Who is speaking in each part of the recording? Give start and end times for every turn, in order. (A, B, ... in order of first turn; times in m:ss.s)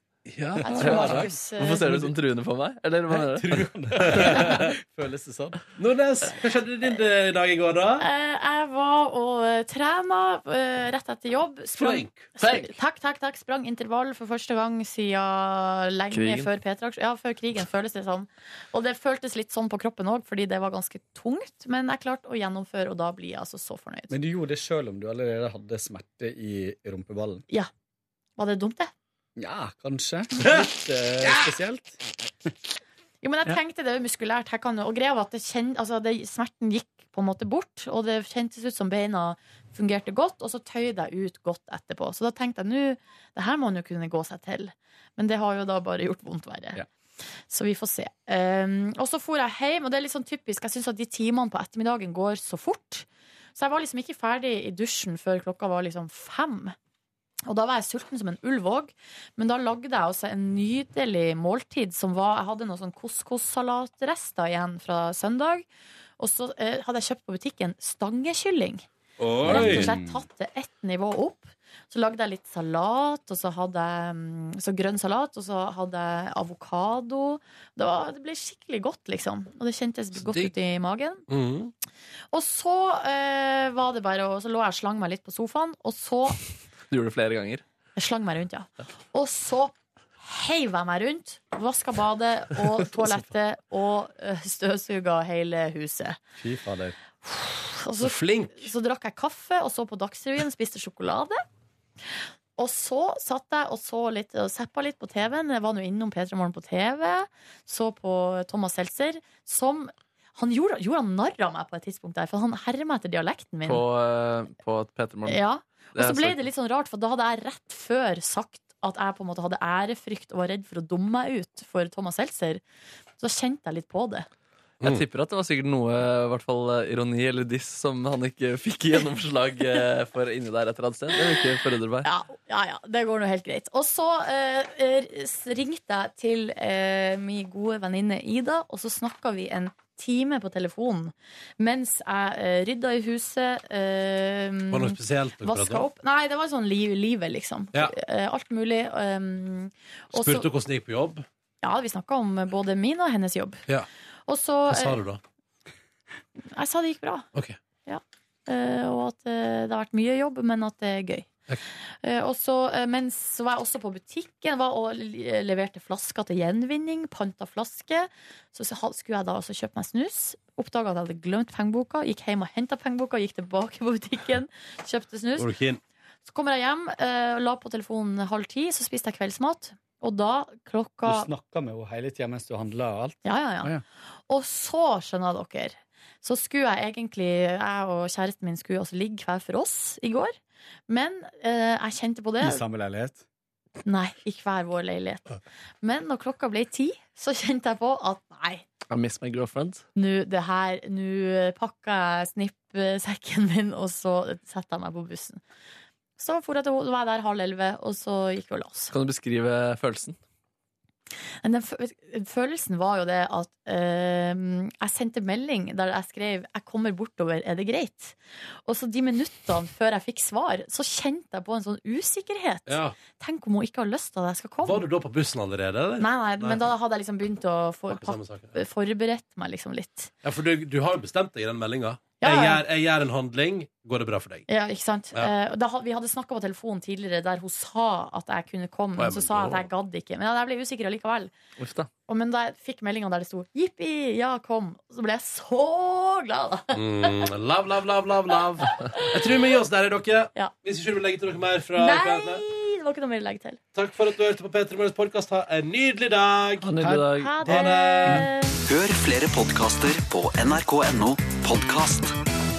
0:00.3-0:01.3 A
0:00.6-0:02.1 B
0:00.6-0:01.8 C
0:00.8-0:04.5 D
0:03.1-0:05.6 B
0:04.0-0:04.7 A
0:05.8-0:08.1 A
0:08.0-0:24.2 C
0:11.8-0:12.3 A
0:12.4-0:12.8 D
0:16.1-0:16.5 D
0:24.1-0:27.4 B
0:28.4-0:28.9 C
0:29.4-0:32.5 B
0:30.4-0:31.5 A
0:33.2-0:46.8 C
0:47.5-0:56.8 C
0:57.5-1:05.7 C
1:06.2-1:08.9 C
1:09.2-1:10.0 A
1:09.4-1:10.2 B
1:09.4-1:21.2 C
1:20.2-1:20.6 A
1:21.3-1:21.7 A
1:22.3-1:26.4 C
1:26.9-1:27.6 D
1:28.0-1:36.2 C
1:36.4-1:37.0 B
1:37.2-1:41.4 C
1:38.0-1:38.7 A
1:42.1-1:53.8 C
1:53.7-1:55.4 D
1:55.3-2:02.6 C
1:56.0-1:56.4 D
2:03.2-2:04.3 C
2:04.8-2:12.1 D
2:12.0-2:30.5 C
2:24.7-2:25.9 A
2:30.1-2:31.3 A
2:31.6-2:33.6 C
2:34.3-2:35.0 C
2:34.7-2:35.2 A
2:36.5-2:37.3 C
2:37.9-2:41.3 C
2:42.0-2:55.5 C
2:55.4-2:55.8 A
2:56.2-3:01.3 C
3:01.1-3:03.8 B
3:03.2-3:03.8 C
3:04.3-3:10.4 C
3:10.9-3:12.6 C
3:12.4-3:13.2 B
3:13.8-3:18.6 C
3:18.9-3:19.8 D
3:20.0-3:25.4 C
3:26.2-3:28.9 C
3:28.9-3:30.2 D
3:31.4-3:44.9 C
3:42.7-3:43.0 A
3:44.6-3:46.6 A
3:46.0-3:50.1 C
3:47.9-3:48.6 A
3:50.2-3:54.5 A
3:52.2-3:52.6 C
3:54.5-4:01.3 C
3:59.0-3:59.7 A
4:01.6-4:01.9 D
4:02.1-4:07.3 C
4:06.7-4:12.4 A
4:08.6-4:09.1 C
4:11.8-4:13.6 C
4:13.8-4:16.7 A
4:16.6-4:17.3 D
4:16.8-4:18.3 B
4:17.1-4:18.6 C
4:17.4-4:18.3 A
4:18.6-4:22.2 E